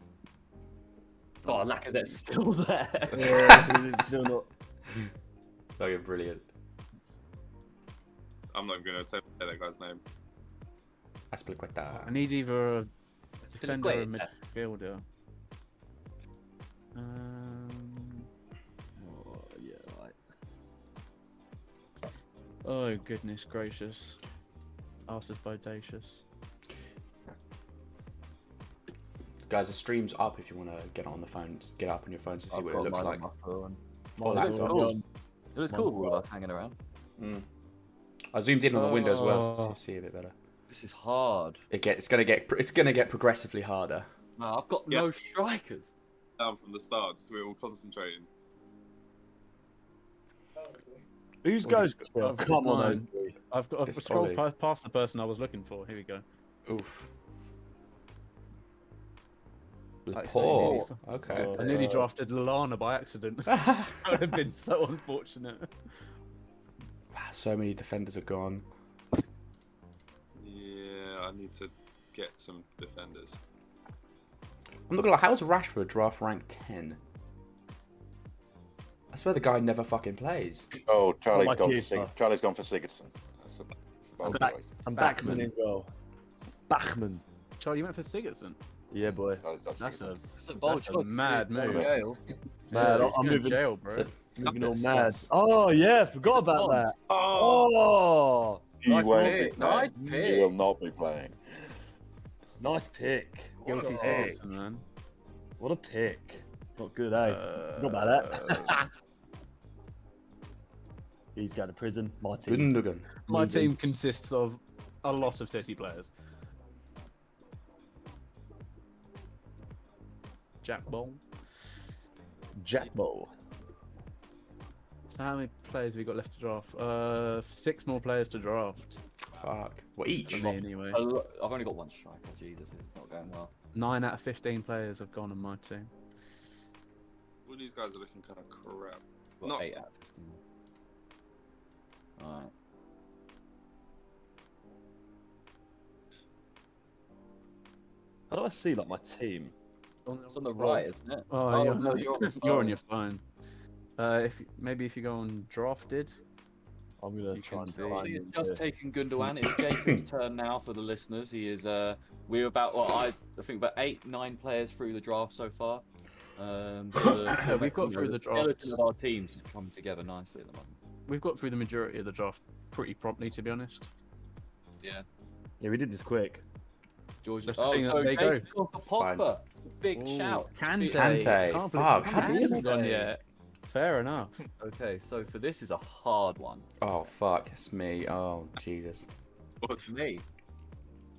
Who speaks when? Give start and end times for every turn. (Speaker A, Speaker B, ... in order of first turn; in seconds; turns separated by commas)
Speaker A: 1.4-3.6, Speaker B: 3.1-4.5, Speaker C: 3.2-3.7, Speaker C: 5.8-6.5, Speaker D: 8.5-10.0, Speaker C: 11.3-12.2, Speaker E: 11.9-12.9, Speaker E: 13.4-15.0, Speaker A: 13.6-14.3, Speaker E: 16.9-18.2, Speaker B: 19.0-20.1, Speaker E: 22.6-24.2, Speaker E: 25.1-26.2, Speaker C: 29.5-33.2, Speaker A: 32.5-33.8, Speaker B: 34.2-35.0, Speaker C: 34.2-35.0, Speaker A: 34.4-35.0, Speaker A: 35.5-36.7, Speaker B: 35.7-36.2, Speaker C: 37.2-37.4, Speaker C: 38.3-40.3, Speaker E: 38.7-39.8, Speaker A: 40.7-41.6, Speaker C: 41.7-44.1, Speaker A: 44.4-45.9, Speaker D: 46.4-48.3, Speaker B: 51.4-53.3, Speaker E: 51.6-56.2, Speaker C: 53.9-54.4, Speaker C: 56.6-57.1, Speaker C: 60.0-61.8, Speaker E: 60.1-61.0, Speaker B: 60.5-62.1, Speaker A: 60.6-61.8, Speaker E: 61.5-65.7, Speaker C: 63.5-64.3, Speaker C: 67.1-68.6, Speaker D: 70.4-73.4, Speaker C: 74.9-77.0, Speaker C: 79.1-80.7, Speaker F: 80.8-84.7, Speaker B: 81.3-82.1, Speaker B: 84.2-85.9, Speaker E: 84.9-85.5, Speaker B: 86.7-87.2, Speaker E: 87.6-88.6, Speaker B: 88.9-89.4, Speaker F: 89.1-90.2, Speaker E: 89.8-91.9, Speaker A: 90.4-92.2, Speaker F: 91.7-92.0, Speaker B: 92.7-93.6, Speaker E: 92.7-94.1, Speaker B: 94.3-100.2, Speaker D: 94.4-94.8, Speaker E: 94.9-95.3, Speaker A: 96.3-96.9, Speaker D: 97.1-97.7, Speaker F: 98.8-101.4, Speaker A: 99.1-100.5, Speaker B: 102.6-104.4, Speaker A: 103.6-104.4, Speaker E: 103.6-104.8, Speaker B: 105.6-108.9, Speaker E: 107.2-108.8, Speaker B: 111.3-113.7, Speaker C: 112.5-113.1, Speaker E: 113.3-116.1, Speaker E: 120.6-121.2, Speaker B: 122.6-123.3, Speaker E: 125.1-129.0, Speaker C: 129.3-130.6, Speaker E: 130.3-131.0, Speaker A: 130.3-133.5, Speaker E: 133.7-135.9, Speaker D: 137.4-139.7, Speaker A: 139.4-140.4, Speaker A: 142.2-142.5, Speaker B: 148.3-149.5, Speaker E: 150.1-153.2, Speaker A: 150.3-152.8, Speaker E: 154.0-156.2, Speaker B: 157.0-158.6, Speaker E: 157.3-158.1, Speaker A: 157.8-165.8, Speaker C: 159.2-160.0, Speaker A: 166.4-170.8, Speaker E: 167.3-168.8, Speaker E: 171.1-173.9, Speaker B: 175.6-176.4, Speaker A: 177.2-181.4, Speaker E: 177.5-178.5, Speaker C: 178.9-179.3, Speaker E: 179.9-184.4, Speaker C: 180.9-182.4, Speaker A: 182.1-183.1, Speaker B: 182.2-182.7, Speaker A: 184.6-186.7, Speaker C: 186.8-189.1, Speaker D: 189.6-189.9, Speaker A: 189.8-190.2